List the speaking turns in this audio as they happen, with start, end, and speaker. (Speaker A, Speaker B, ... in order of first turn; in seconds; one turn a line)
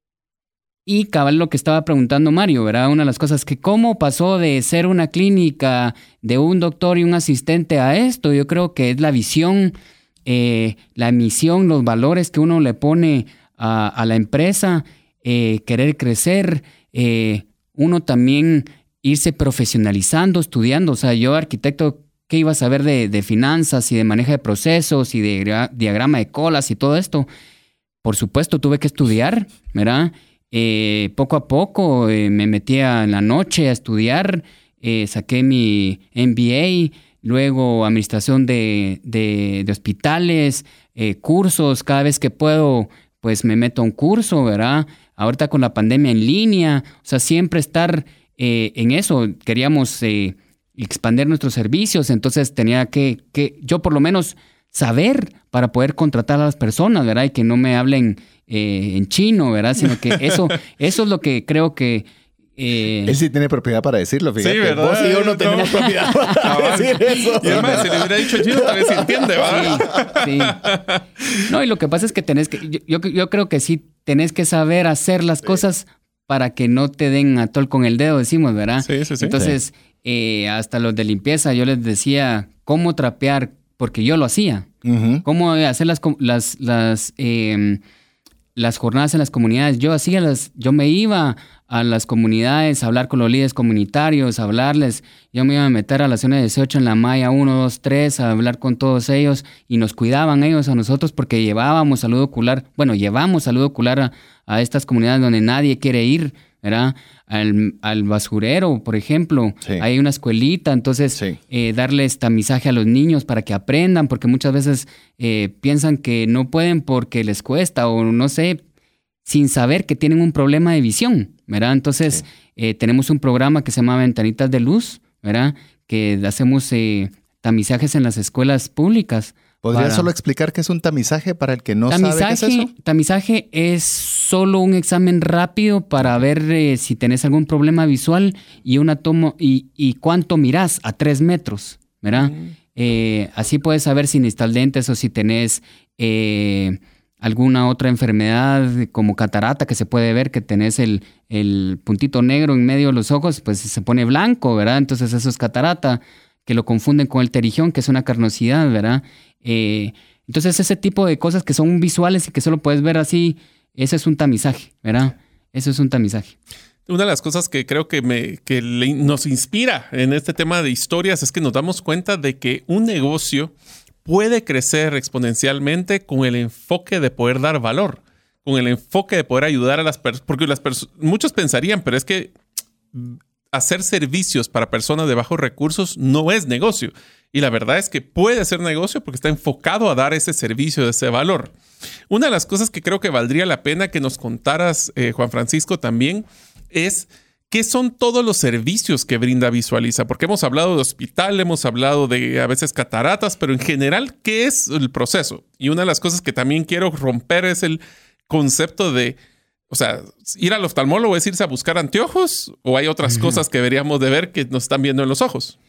Speaker A: 0.8-27.3
Speaker A: 28.0-63.2
Speaker B: 63.0-70.1
Speaker C: 64.4-71.0
Speaker A: 66.0-66.5
Speaker A: 67.4-67.8
Speaker A: 69.4-70.7
Speaker A: 71.4-84.7
Speaker C: 78.8-79.3
Speaker B: 79.3-79.6
Speaker B: 84.8-85.2
Speaker A: 85.2-87.8
Speaker A: 88.5-118.6
Speaker A: 119.2-130.1
Speaker B: 129.6-132.7
Speaker A: 131.9-166.3
Speaker C: 142.2-142.5
Speaker C: 166.9-173.5
Speaker C: 174.0-182.3
Speaker C: 182.9-191.5
Speaker C: 192.1-209.2
Speaker C: 209.7-215.6
Speaker A: 213.0-213.4